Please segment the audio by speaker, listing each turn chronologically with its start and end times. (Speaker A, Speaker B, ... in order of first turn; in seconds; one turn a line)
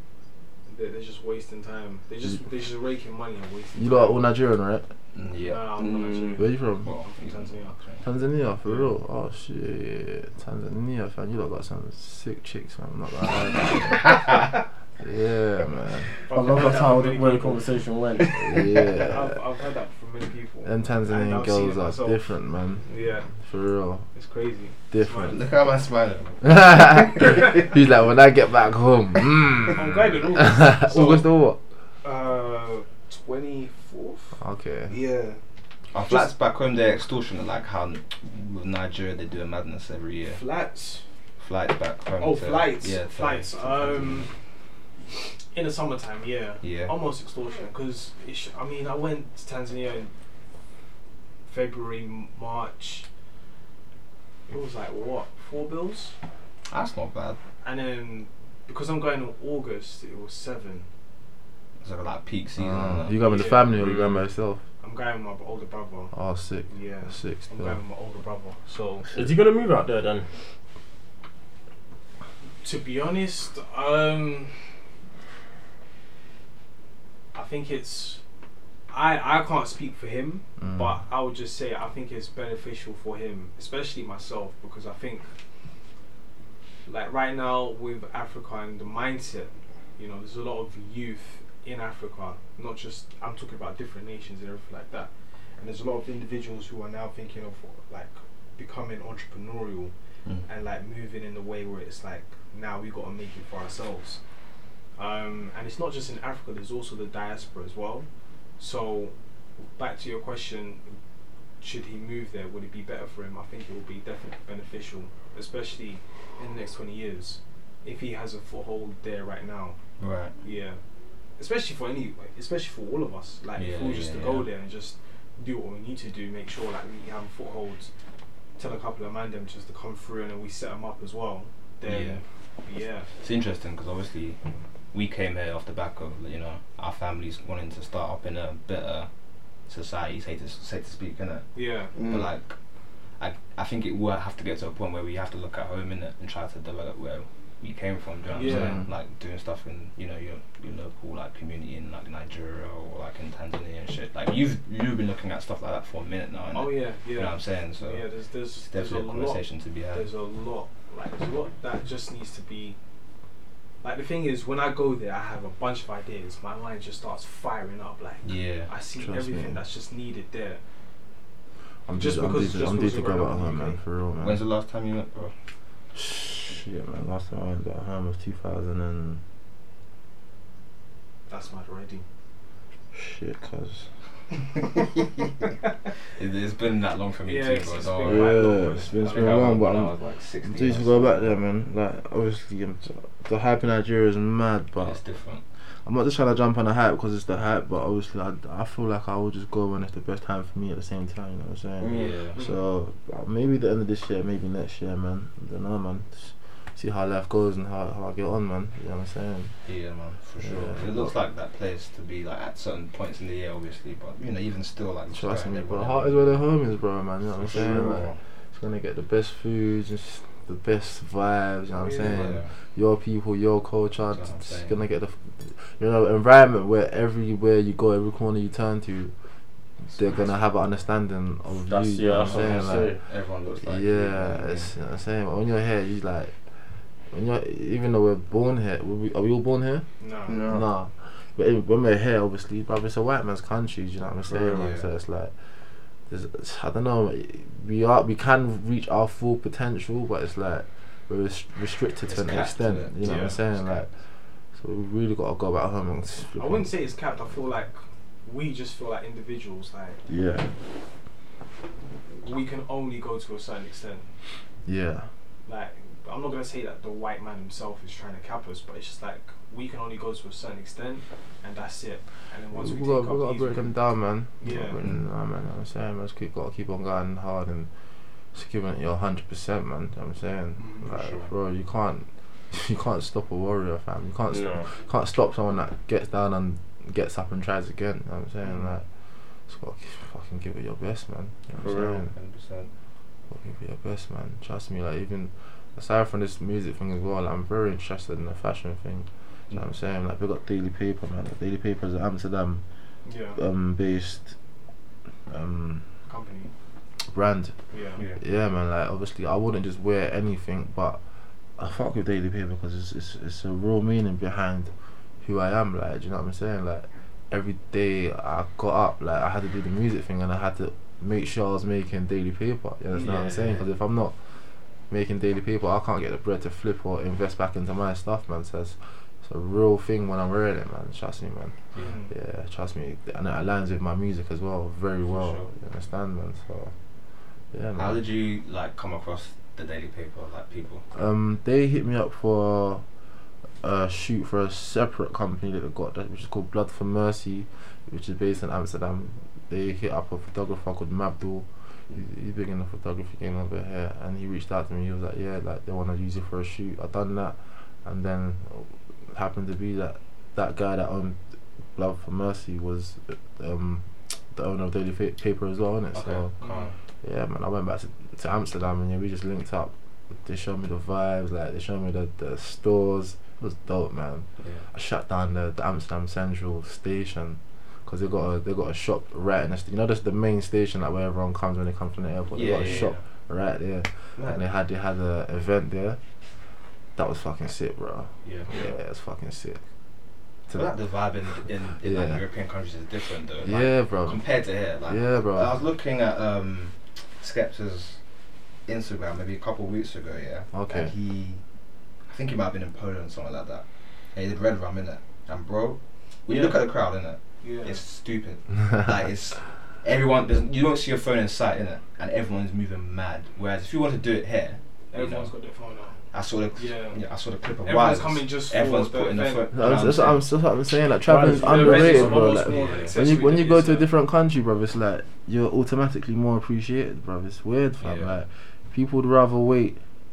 Speaker A: 0.7-4.2
Speaker B: 3.8-4.9
Speaker C: 5.1-8.0
Speaker A: 5.4-7.8
Speaker B: 6.4-6.9
Speaker B: 8.0-14.3
Speaker B: 15.0-16.1
Speaker A: 16.2-17.7
Speaker D: 16.3-18.4
Speaker B: 18.4-19.4
Speaker A: 18.9-22.2
Speaker B: 20.6-24.1
Speaker A: 22.9-23.3
Speaker A: 24.1-25.4
Speaker B: 24.9-25.4
Speaker C: 25.2-27.6
Speaker B: 26.4-31.6
Speaker A: 29.7-31.3
Speaker A: 32.0-35.4
Speaker B: 34.4-34.9
Speaker C: 35.9-40.4
Speaker A: 40.3-41.0
Speaker C: 41.4-44.3
Speaker A: 42.2-44.3
Speaker A: 45.1-50.1
Speaker C: 46.6-46.9
Speaker A: 51.5-53.1
Speaker A: 54.5-56.1
Speaker C: 56.7-57.4
Speaker A: 57.6-60.9
Speaker C: 61.8-63.2
Speaker B: 62.6-64.6
Speaker A: 63.1-63.8
Speaker D: 63.8-64.2
Speaker A: 64.8-66.1
Speaker B: 66.1-67.8
Speaker A: 66.7-69.1
Speaker D: 69.1-70.3
Speaker A: 72.6-74.5
Speaker A: 77.3-78.2
Speaker A: 78.9-85.3
Speaker B: 80.6-81.0
Speaker A: 86.8-99.9
Speaker A: 100.5-104.2
Speaker A: 105.0-108.1
Speaker A: 108.6-109.1
Speaker A: 109.7-111.0
Speaker A: 111.6-119.8
Speaker C: 120.0-120.3
Speaker A: 120.4-120.8
Speaker A: 121.4-127.9
Speaker C: 123.5-124.5
Speaker A: 128.6-133.1
Speaker C: 131.8-132.2
Speaker C: 133.2-134.4
Speaker C: 134.9-139.1
Speaker C: 139.6-142.6
Speaker A: 141.5-141.9
Speaker D: 141.9-142.3
Speaker C: 143.1-158.1
Speaker A: 148.3-148.8
Speaker B: 148.4-148.9
Speaker A: 156.5-162.8
Speaker C: 158.6-160.1
Speaker A: 163.8-170.6
Speaker C: 168.2-168.7
Speaker B: 169.0-169.6
Speaker B: 171.9-174.4
Speaker A: 171.9-173.8
Speaker C: 174.2-175.3
Speaker B: 175.9-179.2
Speaker A: 181.3-182.1
Speaker B: 182.9-183.9
Speaker C: 186.2-191.4
Speaker A: 187.2-189.4
Speaker B: 188.0-195.0
Speaker C: 194.8-195.4
Speaker B: 195.6-209.6
Speaker D: 201.8-202.2
Speaker C: 201.8-202.4
Speaker C: 209.6-216.4
Speaker B: 210.4-211.1
Speaker B: 215.1-229.1
Speaker C: 217.3-218.2
Speaker A: 221.8-222.4
Speaker C: 222.0-222.5
Speaker C: 224.1-224.8
Speaker B: 229.9-232.9
Speaker D: 231.6-233.0
Speaker C: 232.2-234.7
Speaker B: 233.6-236.4
Speaker B: 237.1-239.9
Speaker A: 240.0-240.4
Speaker D: 240.3-240.6
Speaker B: 240.5-245.3
Speaker D: 244.3-244.7
Speaker C: 244.4-244.9
Speaker B: 246.1-253.9
Speaker C: 252.1-253.9
Speaker A: 253.0-253.4
Speaker B: 254.5-256.7
Speaker A: 256.4-260.0
Speaker B: 260.1-260.5
Speaker A: 262.1-264.1
Speaker B: 264.6-265.1
Speaker A: 265.4-273.7
Speaker B: 272.5-277.7
Speaker A: 274.4-274.8
Speaker B: 278.3-288.9
Speaker A: 280.6-280.9
Speaker C: 280.8-281.3
Speaker D: 284.3-284.6
Speaker B: 289.4-292.1
Speaker D: 291.6-292.1
Speaker C: 292.1-292.7
Speaker B: 293.3-302.6
Speaker A: 303.0-303.4
Speaker B: 303.4-304.4
Speaker B: 305.3-305.9
Speaker A: 306.1-306.5
Speaker B: 307.0-307.6
Speaker A: 307.7-308.0
Speaker B: 308.1-311.0
Speaker B: 311.6-336.7
Speaker C: 322.9-323.6
Speaker A: 323.0-323.2
Speaker A: 331.8-332.1
Speaker C: 335.1-335.5
Speaker B: 337.5-338.0
Speaker C: 337.8-340.8
Speaker B: 340.9-342.8
Speaker B: 343.6-366.3
Speaker C: 365.9-366.7
Speaker A: 366.4-366.7
Speaker B: 367.0-386.0
Speaker C: 374.4-374.6
Speaker C: 382.3-383.0
Speaker C: 384.2-384.4
Speaker B: 386.9-389.6
Speaker C: 388.2-388.5
Speaker C: 390.5-398.0
Speaker B: 391.8-392.2
Speaker B: 393.4-395.5
Speaker C: 398.6-401.4
Speaker B: 400.5-400.9
Speaker C: 402.0-415.3
Speaker A: 406.3-406.6
Speaker A: 407.4-407.8
Speaker A: 414.9-416.0
Speaker C: 416.1-420.2
Speaker A: 416.6-417.0
Speaker A: 417.6-419.5
Speaker B: 419.5-429.8
Speaker D: 421.1-422.2
Speaker A: 421.2-423.9
Speaker C: 421.7-423.0
Speaker C: 427.8-428.2